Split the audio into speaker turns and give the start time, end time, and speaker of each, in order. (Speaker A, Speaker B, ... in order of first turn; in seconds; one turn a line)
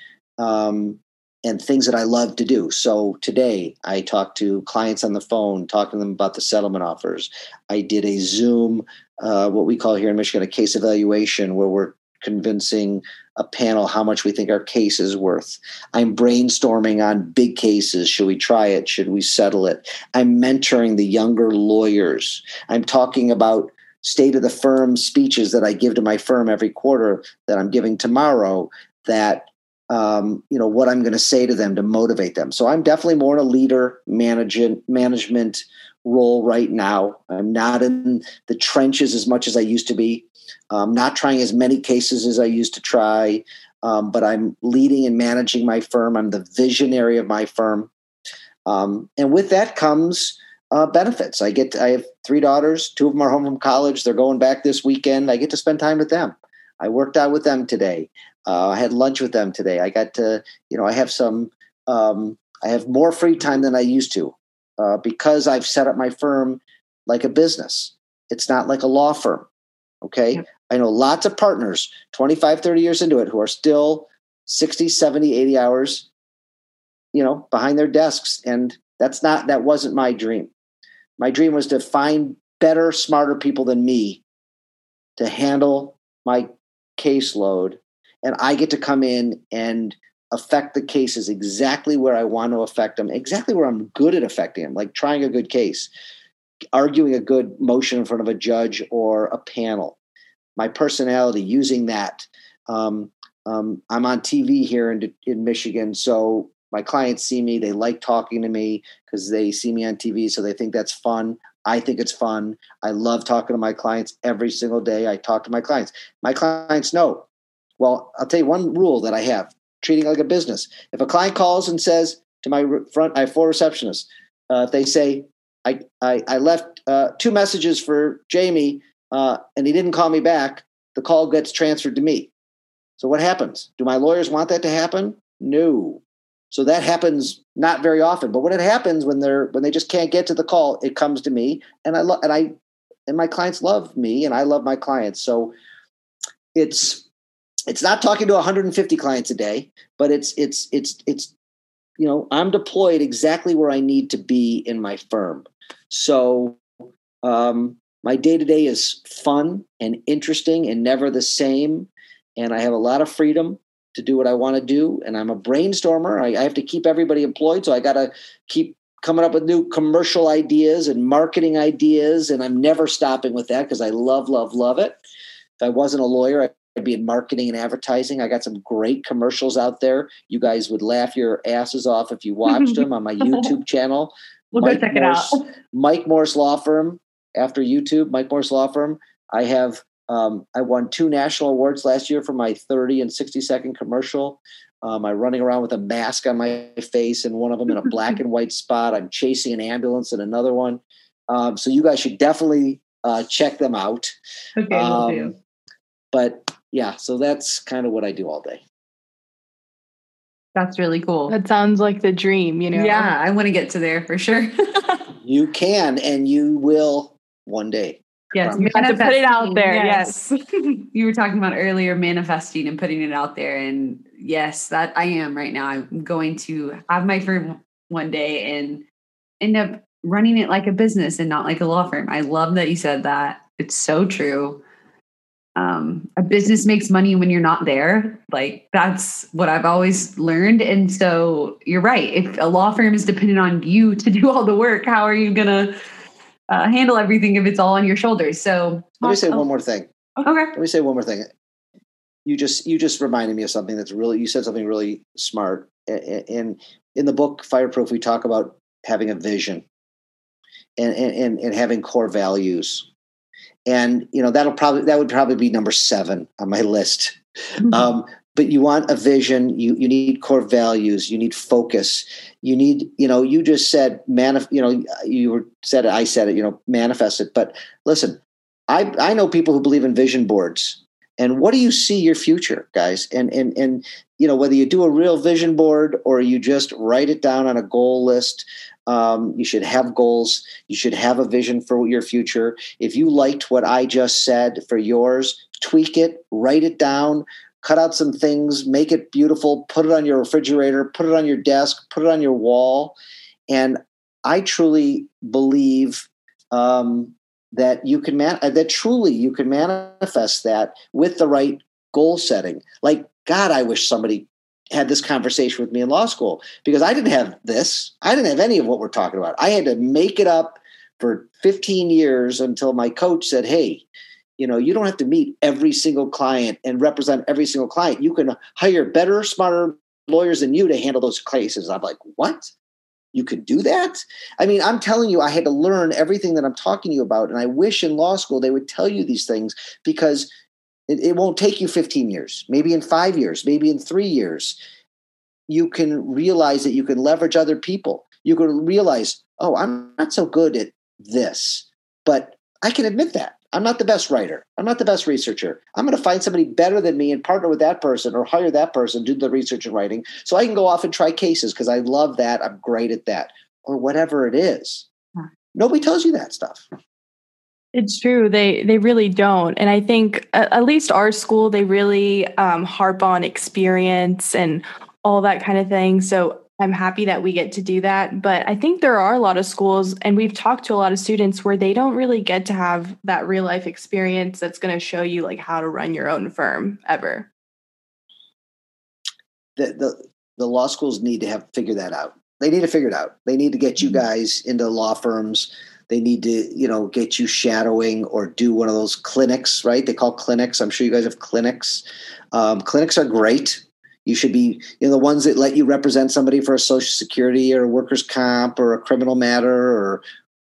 Speaker A: 0.4-47.9
Speaker A: 48.6-69.5
Speaker A: 70.0-76.1
Speaker A: 77.1-80.5
Speaker A: 81.2-84.2
Speaker A: 85.2-95.9
Speaker A: 96.7-100.0
Speaker A: 100.5-117.2
Speaker A: 117.8-132.3
Speaker A: 133.0-142.5
Speaker A: 143.1-145.5
Speaker A: 146.5-147.0
Speaker A: 147.7-151.3
Speaker A: 152.0-156.6
Speaker A: 157.2-174.9
Speaker A: 175.6-204.1
Speaker B: 182.5-183.5
Speaker B: 184.5-185.4
Speaker B: 204.6-205.3
Speaker A: 204.7-205.3
Speaker A: 206.1-208.6
Speaker B: 210.5-211.3
Speaker C: 211.3-213.1
Speaker B: 212.7-215.0
Speaker A: 215.2-218.7
Speaker B: 218.3-228.8
Speaker C: 218.5-220.2
Speaker B: 229.4-234.6
Speaker B: 235.6-245.7
Speaker B: 246.5-249.4
Speaker A: 249.0-249.9
Speaker B: 250.2-250.5
Speaker A: 250.5-251.3
Speaker A: 252.2-259.6
Speaker A: 260.8-262.9
Speaker A: 263.7-302.9
Speaker A: 303.5-323.9
Speaker A: 324.4-332.5
Speaker A: 333.1-340.3
Speaker A: 340.9-344.6
Speaker A: 345.5-364.9
Speaker A: 365.5-366.6
Speaker C: 367.7-387.3
Speaker A: 389.6-410.0